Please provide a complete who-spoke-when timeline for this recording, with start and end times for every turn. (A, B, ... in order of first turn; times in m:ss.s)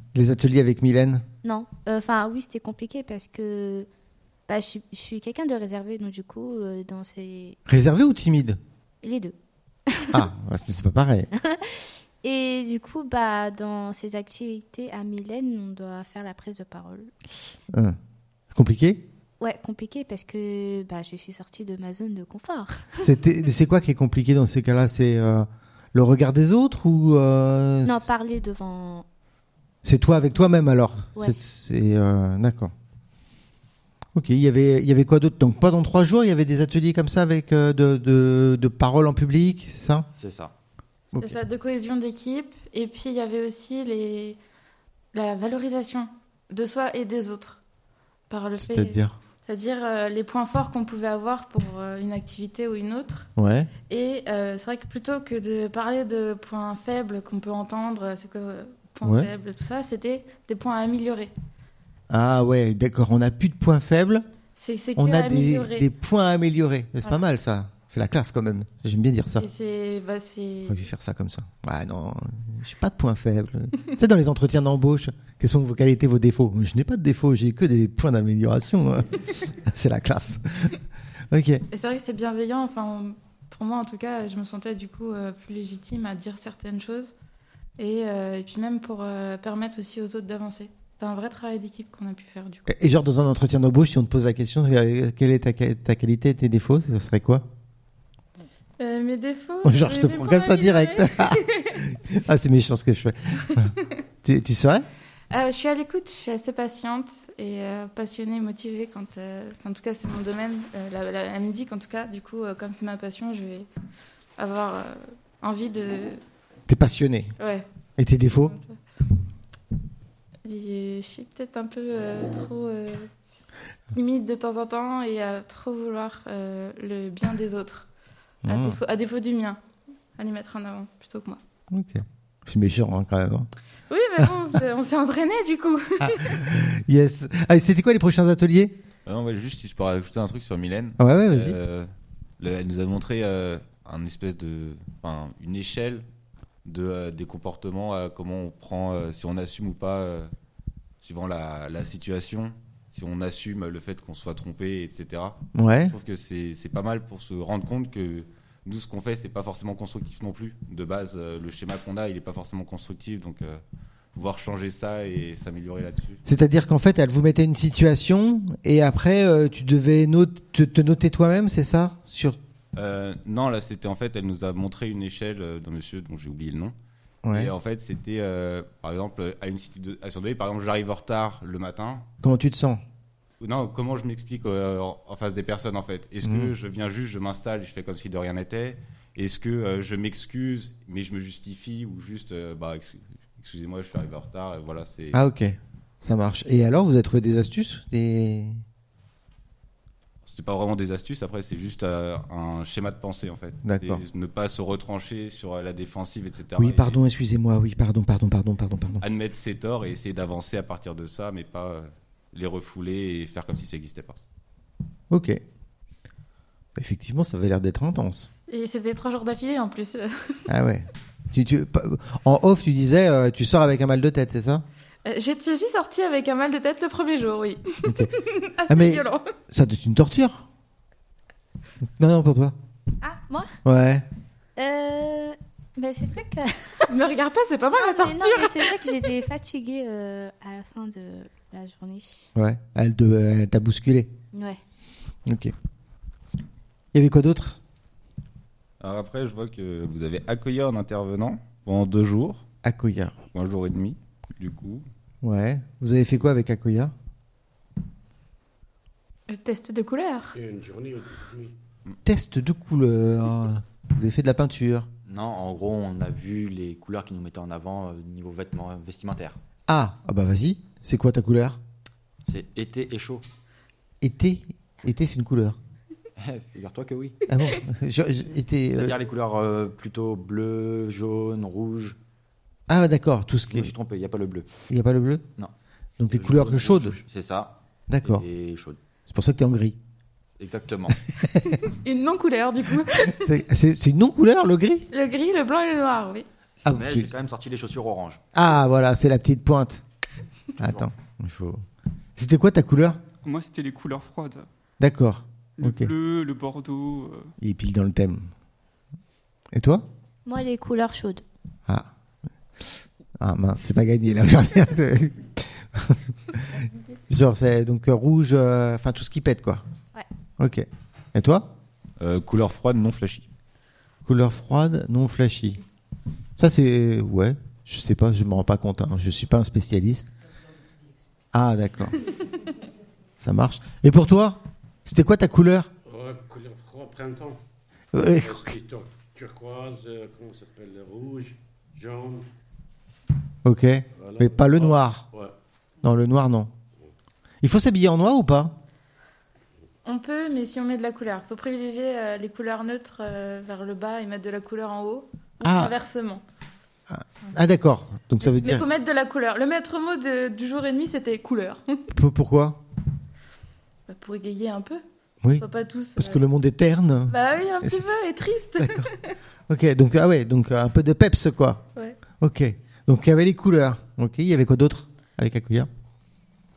0:00.1-0:01.2 A
0:01.4-0:03.9 B
0:04.5-0:07.6 B
0:07.7-0:08.6 A
0:09.0-0:09.3 B
0:09.9-0:10.2 B
0:10.1-0:11.3 A
0:11.4-0:17.1 B
0:18.5-0:19.0 A
0:19.4-0:23.0 B
0:23.0-0:28.1 A
0:27.8-0:29.0 B
0:29.8-0:32.7 A
0:34.1-0:40.1 A
0:40.2-0:40.5 C
0:41.2-0:44.4 D
0:45.1-0:47.6 D
0:48.3-0:53.3 D
0:48.5-0:49.2 A
0:53.4-0:53.7 A
0:53.9-1:01.3 D
0:59.0-0:59.3 A
1:02.1-1:04.2 A
1:04.6-1:05.9 D
1:05.0-1:09.4 A
1:09.4-1:10.8 D
1:10.7-1:20.8 A
1:21.3-1:21.6 A
1:21.7-1:27.1 D
1:27.8-1:32.7 D
1:32.7-1:37.4 A
1:38.8-1:41.8 D
1:39.6-1:44.8 A
1:45.3-1:53.7 D
1:54.4-1:56.2 D
1:56.7-1:57.3 A
1:57.4-1:57.6 D
1:58.0-1:58.5 A
1:58.4-1:58.8 D
2:00.4-2:03.1 D
2:03.9-2:07.9 D
2:08.4-2:08.8 A
2:08.5-2:09.6 D
2:10.2-2:11.4 D
2:11.7-2:13.5 A
2:13.9-2:16.4 D
2:16.0-2:18.8 A
2:19.0-2:26.0 E
2:21.0-2:21.6 A
2:26.6-2:30.3 E
2:31.0-2:43.6 E
2:35.5-2:35.9 A
2:44.1-2:46.2 E
2:46.2-2:52.4 A
2:52.7-2:56.7 E
2:57.2-2:57.5 A
2:57.3-3:02.0 E
3:02.2-3:02.8 A
3:03.4-3:15.2 E
3:06.2-3:06.5 A
3:15.1-3:18.6 A
3:20.2-3:27.0 E
3:23.6-3:24.0 A
3:26.6-3:29.0 A
3:29.0-3:34.2 E
3:35.1-3:35.4 A
3:36.7-3:38.3 A
3:38.5-3:40.4 D
3:40.5-3:44.6 A
3:45.0-3:49.3 D
3:47.8-3:48.1 A
3:48.7-3:50.4 A
3:52.0-3:52.5 A
3:53.0-3:53.5 B
3:53.6-3:54.0 A
3:54.6-3:56.9 B
3:56.9-3:58.9 D
3:57.7-4:02.3 B
4:02.4-4:04.1 A
4:04.3-4:04.6 B
4:05.2-4:05.5 A
4:06.9-4:07.6 A
4:08.8-4:12.4 E
4:12.6-4:13.1 A
4:13.3-4:14.8 E
4:15.2-4:16.9 A
4:19.3-4:20.3 D
4:20.3-4:21.5 F
4:22.0-4:24.9 A
4:25.0-4:29.4 C
4:29.7-4:31.6 A
4:32.2-4:33.2 C
4:34.0-4:35.6 A
4:36.2-4:37.2 C
4:37.3-4:39.0 A
4:38.7-4:42.0 C
4:42.7-4:43.7 A
4:43.5-4:44.5 C
4:44.7-4:45.2 A
4:46.0-4:47.0 A
4:46.1-4:48.8 C
4:47.9-4:48.2 A
4:49.1-4:49.8 A
4:50.4-4:51.0 C
4:51.2-4:51.6 A
4:51.6-4:53.3 D
4:53.0-4:54.9 A
4:54.9-4:56.2 D
4:56.6-4:57.1 A
4:56.7-4:58.2 C
4:58.3-4:59.8 A
5:00.6-5:01.6 A
5:00.6-5:00.9 C
5:02.2-5:03.0 A
5:03.2-5:04.5 G
5:04.8-5:05.9 A
5:05.6-5:07.3 G
5:07.4-5:08.3 A
5:09.5-5:09.8 A
5:10.2-5:11.2 B
5:13.2-5:16.5 A
5:17.1-5:19.6 A
5:20.4-5:21.5 A
5:22.0-5:23.3 E
5:24.0-5:25.6 A
5:26.4-5:30.1 A
5:31.3-5:32.0 A
5:33.2-5:35.7 A
5:35.8-5:37.4 F
5:37.9-5:38.6 A
5:38.2-5:42.2 F
5:43.4-5:45.0 A
5:44.0-5:45.3 F
5:45.8-5:46.5 A
5:47.4-5:48.6 A
5:49.8-5:56.2 D
5:55.4-5:55.7 A
5:56.9-5:58.6 A
5:58.2-6:01.8 D
6:01.9-6:02.6 A
6:03.9-6:04.8 D
6:05.3-6:06.2 D
6:06.0-6:07.9 A
6:07.1-6:09.1 D
6:08.6-6:08.9 A
6:09.5-6:11.6 A
6:12.2-6:15.7 A